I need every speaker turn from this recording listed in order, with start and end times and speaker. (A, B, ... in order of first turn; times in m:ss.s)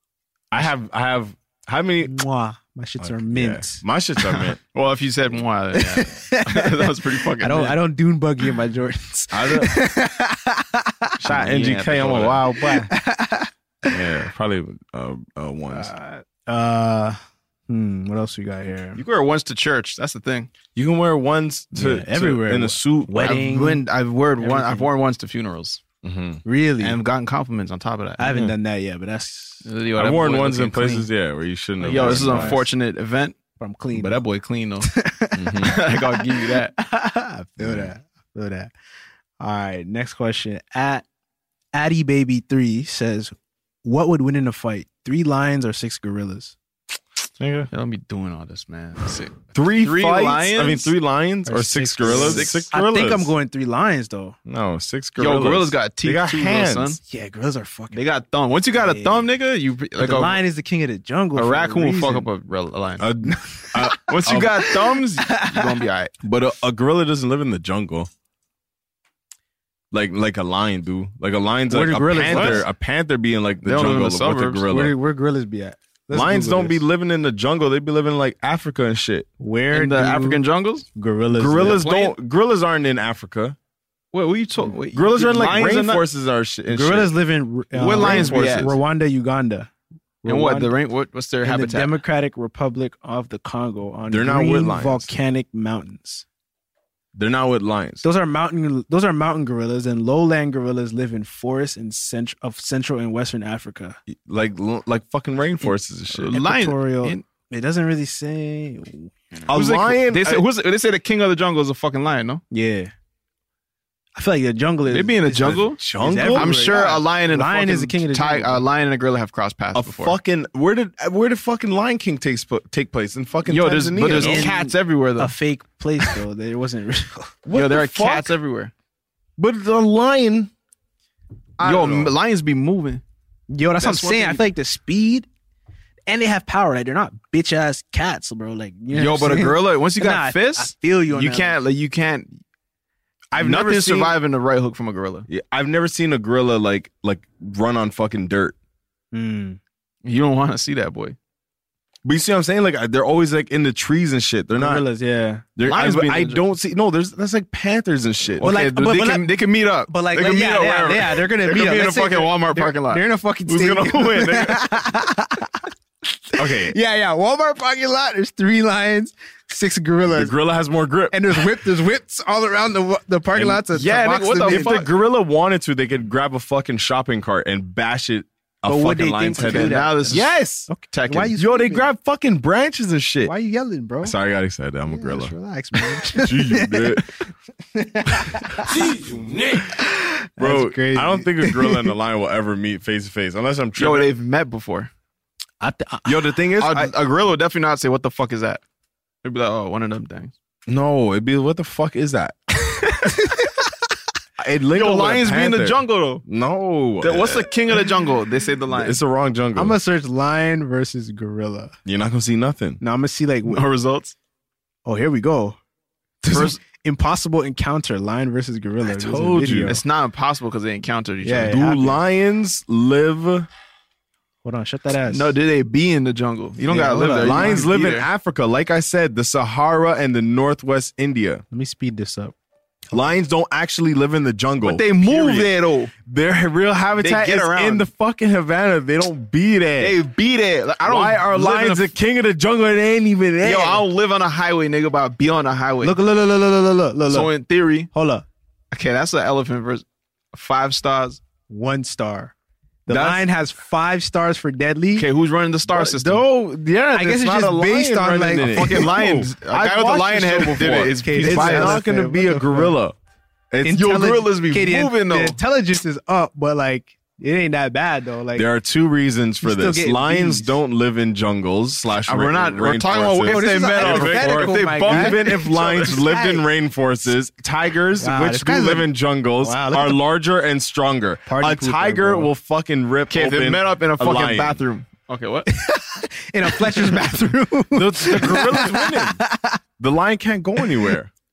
0:00.5-0:02.1 A
0:02.0-0:04.5 B
0:03.0-0:04.6 A
0:04.7-0:07.8 C
0:05.7-0:11.2 B
0:09.3-0:09.8 A
0:11.2-0:12.9 A
0:11.3-0:12.4 C
0:12.6-0:13.9 B
0:13.9-0:15.9 A
0:15.7-0:19.0 B
0:19.0-0:20.5 C
0:20.7-0:23.4 A
0:21.7-0:23.8 B
0:23.2-0:25.8 C
0:24.4-0:24.9 B
0:26.0-0:26.4 A
0:26.4-0:27.0 B
0:26.8-0:28.3 C
0:28.2-0:29.6 B
0:28.3-0:28.5 A
0:29.6-0:31.1 C
0:30.0-0:32.6 A
0:31.8-0:33.4 C
0:32.0-0:32.6 B
0:33.6-0:34.1 B
0:33.9-0:34.9 C
0:34.9-0:38.7 B
0:35.4-0:35.8 A
0:35.6-0:36.7 C
0:37.6-0:37.9 A
0:39.4-0:41.0 B
0:41.7-0:43.3 B
0:43.8-0:46.6 B
0:47.4-0:47.7 A
0:47.7-0:50.9 C
0:49.5-0:53.3 A
0:51.4-0:54.4 B
0:52.0-0:52.6 C
0:54.4-0:57.0 A
0:55.2-0:57.0 C
0:57.1-0:58.0 B
0:57.9-1:00.4 C
0:58.8-0:59.3 B
1:00.0-1:02.3 B
1:01.3-1:03.1 C
1:03.0-1:04.6 A
1:03.2-1:05.7 B
1:04.0-1:06.1 C
1:06.2-1:08.1 A
1:09.9-1:15.0 A
1:11.7-1:12.6 B
1:12.3-1:12.6 C
1:13.6-1:14.6 C
1:14.7-1:16.8 B
1:16.1-1:19.3 A
1:19.4-1:20.4 B
1:19.7-1:20.9 C
1:21.0-1:21.8 B
1:21.3-1:23.6 A
1:21.7-1:22.1 C
1:24.1-1:26.0 C
1:24.9-1:27.1 A
1:26.7-1:29.7 B
1:27.7-1:28.8 C
1:28.0-1:28.7 A
1:30.2-1:30.7 B
1:30.2-1:32.0 C
1:31.4-1:36.2 B
1:34.1-1:35.1 A
1:37.1-1:38.0 A
1:38.0-1:44.0 B
1:44.1-1:46.4 A
1:46.1-1:47.2 C
1:46.3-1:49.4 B
1:49.5-1:50.4 A
1:49.5-1:52.4 C
1:52.5-1:52.9 B
1:54.2-1:58.6 B
1:54.9-2:00.2 C
1:55.6-1:56.8 A
1:59.7-2:04.5 A
2:03.4-2:05.3 C
2:04.1-2:07.4 B
2:07.4-2:08.3 A
2:07.5-2:08.7 C
2:09.4-2:10.5 A
2:11.6-2:12.1 A
2:11.6-2:13.0 C
2:13.5-2:15.3 B
2:13.8-2:14.4 C
2:16.1-2:21.6 B
2:18.9-2:22.4 C
2:23.3-2:24.1 A
2:23.3-2:25.3 C
2:25.3-2:28.6 A
2:29.1-2:29.6 B
2:30.0-2:31.2 C
2:32.0-2:34.8 A
2:34.6-2:35.4 B
2:35.6-2:38.5 A
2:35.6-2:36.4 C
2:38.4-2:43.0 C
2:38.4-2:39.3 B
2:39.9-2:50.3 B
2:43.5-2:44.6 A
2:46.4-2:46.7 A
2:50.1-2:51.7 A
2:51.1-2:54.8 B
2:53.3-2:53.6 A
2:53.7-2:54.9 C
2:54.5-3:00.3 A
2:58.6-3:01.9 B
2:59.4-3:01.4 C
3:01.4-3:03.3 A
3:03.2-3:04.2 B
3:04.0-3:07.2 A
3:04.9-3:07.0 B
3:07.7-3:08.8 B
3:08.2-3:09.8 A
3:09.6-3:11.9 B
3:10.4-3:14.1 A
3:13.8-3:14.9 C
3:15.6-3:16.4 B
3:16.0-3:16.9 A
3:16.6-3:18.6 C
3:19.2-3:20.3 C
3:20.7-3:22.4 A
3:22.9-3:23.1 C
3:24.4-3:27.5 A
3:24.7-3:26.2 C
3:27.0-3:29.0 C
3:28.7-3:29.8 A
3:29.6-3:31.8 B
3:31.8-3:32.8 A
3:32.8-3:33.6 B
3:33.4-3:34.2 C
3:34.8-3:35.6 B
3:36.2-3:39.8 B
3:36.3-3:36.6 C
3:38.8-3:39.8 A
3:39.6-3:41.6 C
3:41.2-3:42.0 B
3:41.4-3:43.5 A
3:44.4-3:45.3 B
3:45.1-3:48.1 C
3:46.7-3:47.6 B
3:47.1-3:51.4 A
3:51.5-3:52.3 B
3:52.9-3:55.5 A
3:54.6-3:55.9 C
3:56.0-4:00.0 A
3:57.0-3:57.9 C
3:59.8-4:01.9 C
4:00.8-4:03.9 A
4:03.4-4:06.0 C
4:05.8-4:07.3 B
4:07.1-4:07.9 C
4:07.9-4:08.2 B
4:08.7-4:11.2 C
4:11.5-4:12.3 B
4:12.9-4:15.1 B
4:12.9-4:13.2 C
4:15.0-4:16.3 C
4:15.7-4:23.0 A
4:16.9-4:18.8 B
4:18.4-4:21.8 C
4:21.0-4:22.8 B
4:23.5-4:23.9 A
4:23.6-4:28.5 B
4:23.7-4:25.4 C
4:28.3-4:44.6 A
4:29.4-4:30.6 B
4:32.0-4:36.0 C
4:33.3-4:36.4 B
4:38.0-4:40.0 B
4:41.3-4:42.3 B
4:43.1-4:45.5 C
4:45.5-4:49.6 B
4:46.6-4:47.0 C
4:47.7-4:49.2 A
4:49.8-4:51.1 A